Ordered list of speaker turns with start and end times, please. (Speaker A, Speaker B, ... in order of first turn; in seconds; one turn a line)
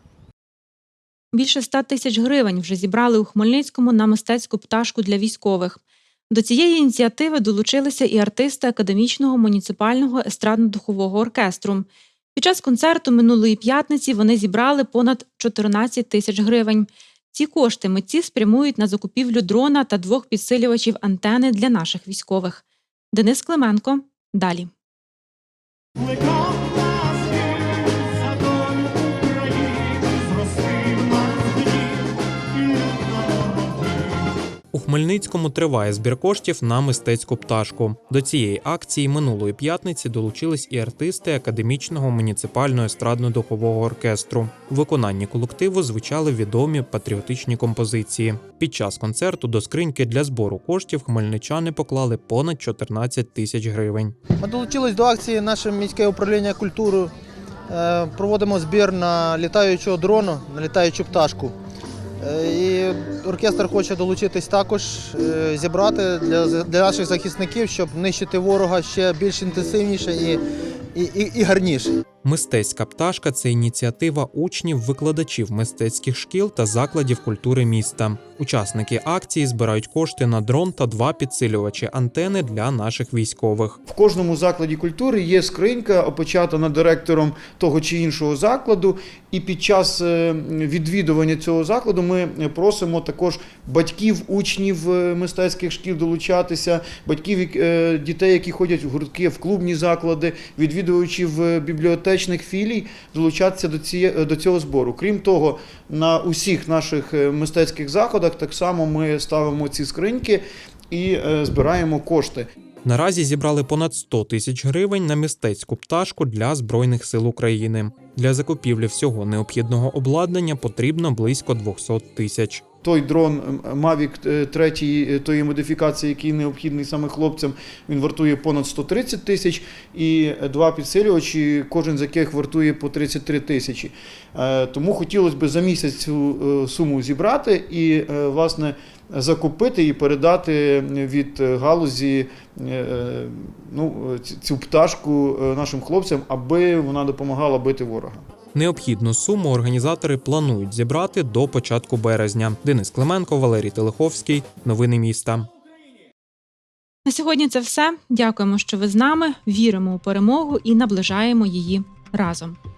Speaker A: 1.3-24.7
Speaker B: 34.7-54.1
Speaker C: 54.4-57.1
Speaker C: 57.7-61.5
Speaker C: 62.2-70.4
Speaker C: 70.9-71.9
Speaker B: 72.2-83.8
Speaker D: 83.9-112.5
Speaker B: 112.8-122.6
Speaker D: 122.8-148.2
Speaker B: 148.5-155.5
Speaker A: 157.1-162.6